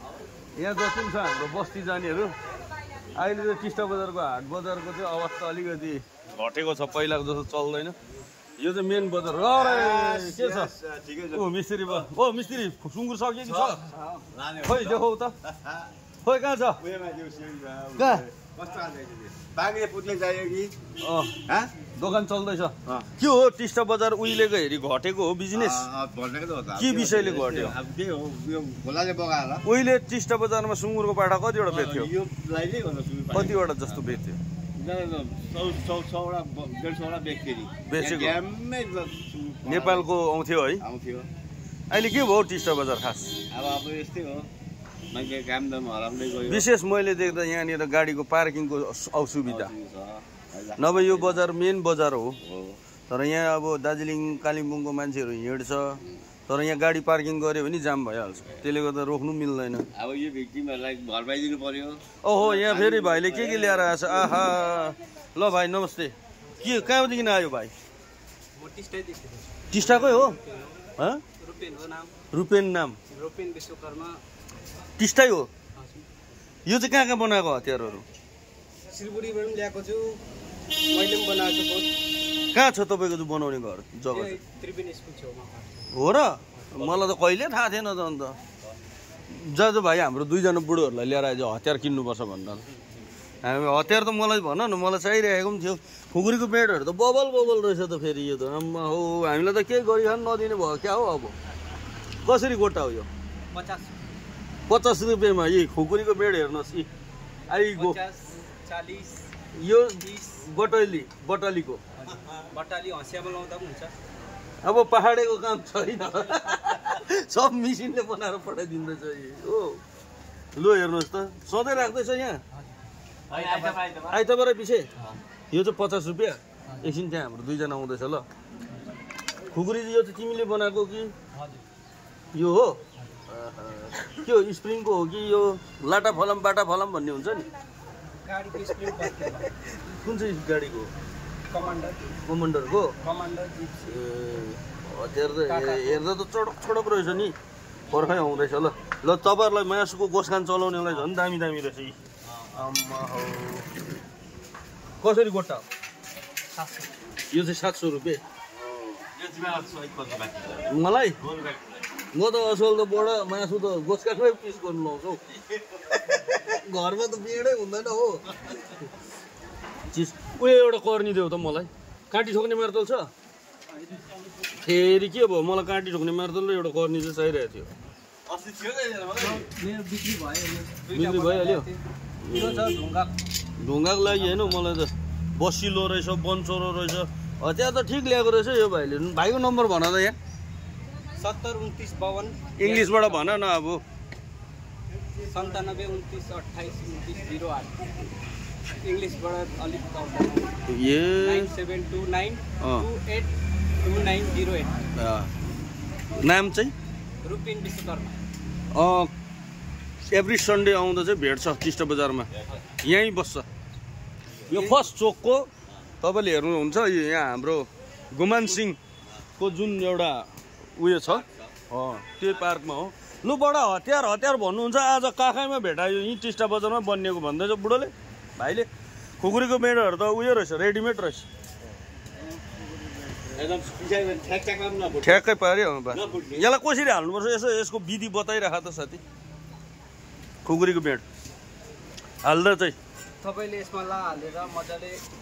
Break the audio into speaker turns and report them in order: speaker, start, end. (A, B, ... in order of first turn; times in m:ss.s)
0:00.6-0:02.4 A
0:03.2-0:08.0 A
0:08.6-0:10.7 A
0:09.5-0:12.0 B
0:11.3-0:13.8 A
0:13.4-0:15.9 B
0:14.6-0:15.4 A
0:16.2-0:16.8 A
0:16.8-0:20.7 B
0:18.0-0:18.2 A
0:21.0-0:21.4 A
0:22.0-0:25.9 A
0:25.5-0:29.6 B
0:26.8-0:27.8 A
0:29.6-0:32.1 A
0:31.7-0:34.2 B
0:33.3-0:34.4 A
0:34.8-0:40.1 B
0:37.9-0:38.4 A
0:39.6-0:40.8 A
0:40.8-0:41.3 B
0:41.9-0:43.4 A
0:43.5-0:44.5 B
0:45.1-0:46.7 B
0:46.5-0:49.7 A
0:49.4-0:51.4 B
0:50.8-0:52.4 A
0:52.4-0:52.8 B
0:53.1-0:59.9 A
1:00.0-1:04.5 B
1:02.2-1:07.7 A
1:08.6-1:10.8 C
1:09.7-1:10.4 A
1:11.4-1:12.1 C
1:12.3-1:13.0 A
1:13.1-1:14.2 C
1:15.0-1:15.5 A
1:15.8-1:16.0 C
1:16.7-1:18.0 A
1:18.9-1:20.2 C
1:20.9-1:21.9 C
1:22.5-1:24.4 A
1:24.1-1:25.9 C
1:25.9-1:28.4 A
1:26.6-1:27.0 C
1:29.3-1:32.6 A
1:33.4-1:41.3 A
1:42.2-1:43.1 A
1:43.5-1:44.0 C
1:44.7-1:46.9 A
1:47.5-1:48.0 A
1:47.7-1:49.2 C
1:49.6-1:51.8 A
1:50.0-1:50.4 C
1:52.0-1:53.9 C
1:54.6-1:59.8 A
2:00.6-2:02.4 A
2:03.3-2:04.2 C
2:03.3-2:03.8 B
2:04.1-2:04.9 A
2:05.5-2:08.2 A
2:09.5-2:11.1 A
2:12.3-2:17.5 A
2:18.2-2:19.5 C
2:20.0-2:20.9 A
2:21.5-2:22.0 C
2:22.3-2:23.0 A
2:23.0-2:23.9 C
2:23.8-2:27.4 A
2:25.5-2:26.0 C
2:27.9-2:32.0 A
2:32.3-2:32.6 B
2:32.6-2:33.7 A
2:35.0-2:35.6 A
2:36.6-2:36.8 C
2:37.3-2:38.2 A
2:38.6-2:40.7 B
2:40.7-2:41.2 A
2:41.2-2:41.8 B
2:42.2-2:45.4 A
2:46.1-2:48.2 A
2:49.9-2:53.1 A
2:54.6-2:57.7 A
2:58.3-2:59.4 B
2:59.2-3:01.8 C
3:00.9-3:01.7 A
3:02.2-3:02.8 A
3:02.3-3:03.1 C
3:03.6-3:10.2 A
3:04.2-3:04.5 C
3:11.2-3:13.3 C
3:12.6-3:13.8 A
3:15.3-3:17.9 C
3:18.8-3:20.5 C
3:20.7-3:21.5 A
3:21.2-3:24.9 C
3:22.6-3:22.9 A
3:25.0-3:25.3 A
3:26.2-3:26.7 A
3:27.2-3:28.2 C
3:28.7-3:29.1 A
3:30.1-3:32.3 A
3:32.8-3:33.5 A
3:34.5-3:35.5 A
3:36.0-3:38.8 A
3:39.4-3:48.7 A
3:41.1-3:41.5 B
3:49.2-3:51.3 A
3:52.5-3:55.2 B
3:55.0-3:59.0 A
3:55.9-3:56.4 B
4:00.4-4:01.0 A
4:02.2-4:02.8 A
4:03.2-4:05.0 C